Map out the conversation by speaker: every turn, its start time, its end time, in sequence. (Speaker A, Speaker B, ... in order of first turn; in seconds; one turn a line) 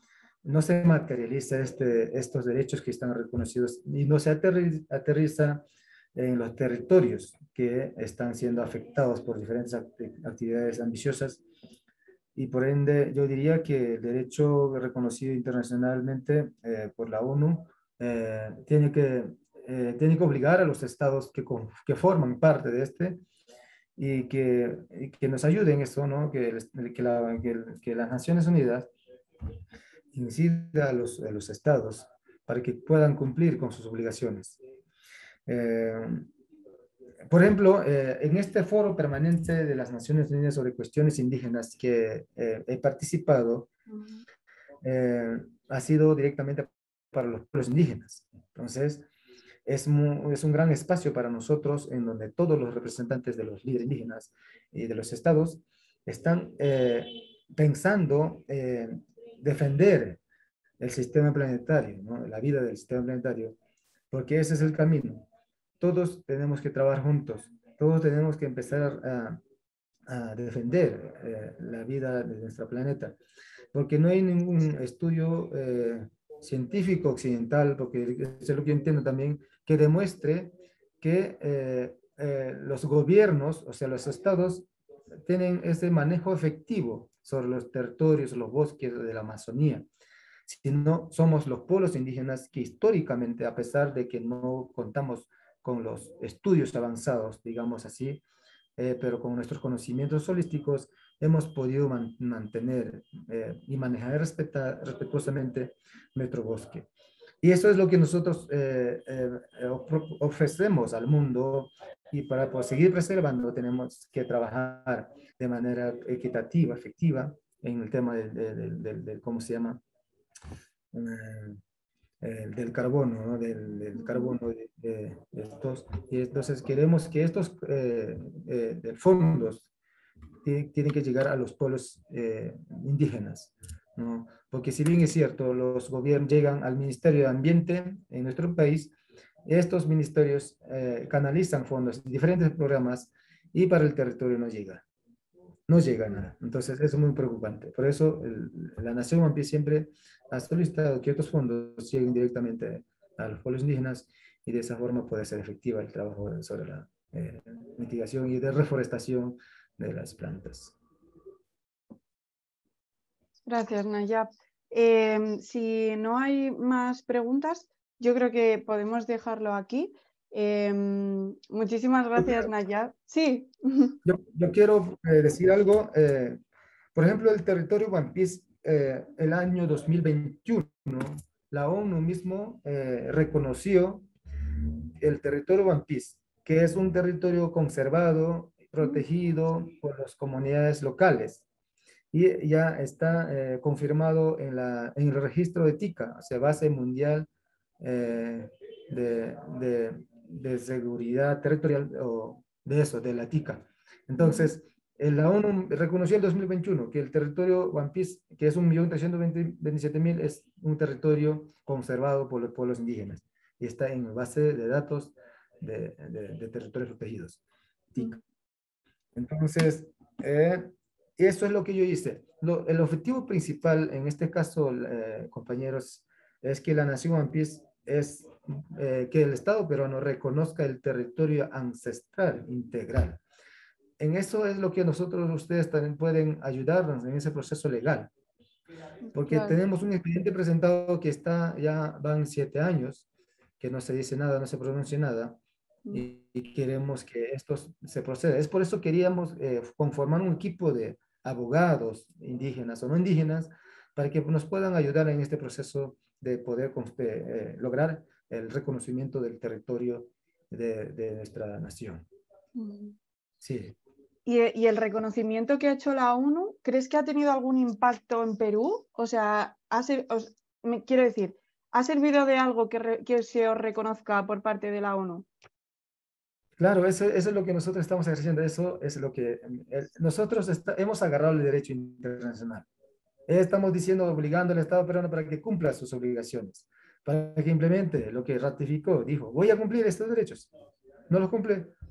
Speaker A: 0.4-5.6
Speaker A: 6.2-11.4
Speaker A: 12.3-23.2
Speaker A: 24.0-28.9
Speaker A: 30.1-34.6
Speaker A: 35.5-36.3
Speaker A: 37.3-43.7
Speaker B: 43.9-44.2
Speaker A: 44.8-49.1
Speaker A: 49.7-60.2
Speaker A: 60.8-63.6
Speaker A: 64.1-65.3
Speaker A: 65.8-69.4
Speaker A: 70.1-73.2
Speaker A: 73.7-84.7
Speaker A: 85.3-89.9
Speaker A: 90.5-98.2
Speaker A: 98.8-106.9
Speaker A: 107.4-119.8
Speaker A: 120.9-121.6
Speaker A: 122.2-129.7
Speaker B: 124.0-124.3
Speaker A: 130.4-138.9
Speaker A: 139.5-144.8
Speaker A: 145.7-160.8
Speaker B: 163.5-174.0
Speaker A: 172.2-172.5
Speaker A: 174.1-176.4
Speaker A: 176.9-184.1
Speaker A: 185.0-191.4
Speaker A: 192.1-197.3
Speaker A: 197.8-217.4
Speaker B: 204.2-204.5
Speaker A: 217.9-218.2
Speaker A: 219.2-233.2
Speaker A: 234.0-238.1
Speaker B: 239.1-239.6
Speaker A: 239.1-243.1
Speaker A: 243.6-245.4
Speaker A: 245.9-262.1
Speaker B: 262.6-263.0
Speaker A: 263.4-263.8
Speaker B: 264.3-275.3
Speaker A: 276.6-282.7
Speaker A: 283.3-290.5
Speaker A: 291.1-291.7